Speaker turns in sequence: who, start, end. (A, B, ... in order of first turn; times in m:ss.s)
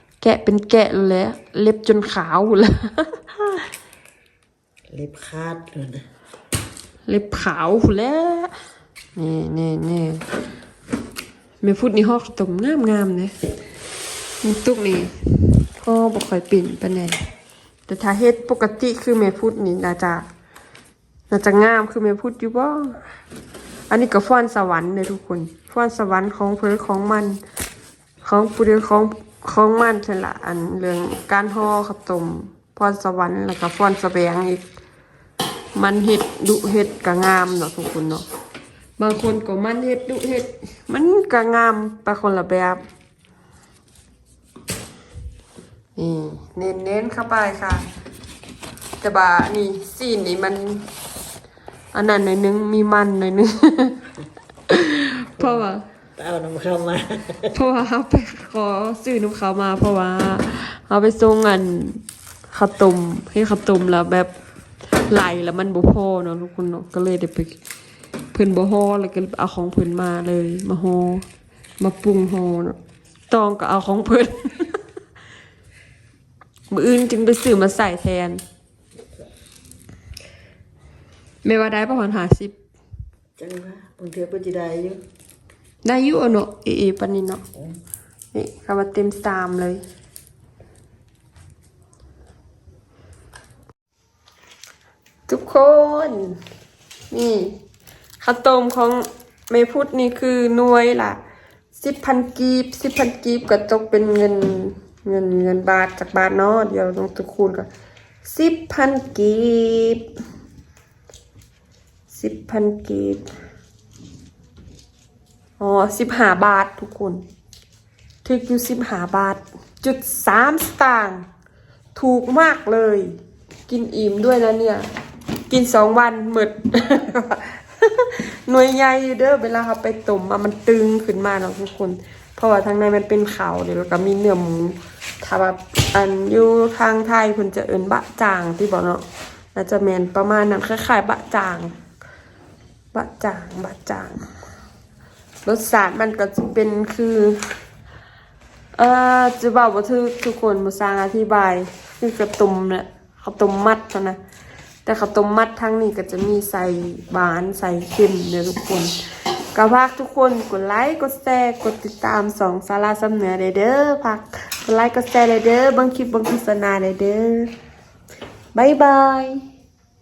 0:00.2-0:03.3 A
0:04.9-0:06.0 B
0:07.1-0:08.5 A
0:09.2-0:10.2 A
0:11.6-0:13.3 A
0:14.4-0:17.2 A
0:17.9-0:20.2 A
0:21.3-0:23.0 A
0:23.9-0:27.4 A
0:28.2-0:34.6 A
0:35.7-0:38.2 A
0:39.0-0:42.8 A
0:46.0-0:47.8 A
0:49.0-0:50.8 A
0:51.9-0:54.0 A
0:54.7-0:55.8 A
0:55.4-0:57.6 B
0:57.5-1:04.3 A
1:05.1-1:07.6 A
1:08.3-1:11.2 A
1:11.8-1:12.8 A
1:13.3-1:14.8 A
1:16.7-1:18.4 A
1:21.4-1:22.6 A
1:23.4-1:25.0 B
1:25.8-1:27.4 A
1:28.3-1:29.8 A
1:35.3-1:36.4 A
1:37.1-1:37.5 A
1:38.2-1:41.2 A
1:41.8-1:47.7 A
1:48.2-1:50.1 A
1:52.1-1:53.2 A
1:55.6-1:57.2 A
1:58.2-2:01.2 A
2:01.9-2:03.1 A
2:03.7-2:04.9 A
2:05.5-2:21.7 A
2:22.9-2:24.2 A
2:25.4-2:27.4 A
2:28.8-2:34.2 A
2:34.8-2:38.9 A
2:39.5-2:47.5 A
2:48.5-2:49.4 A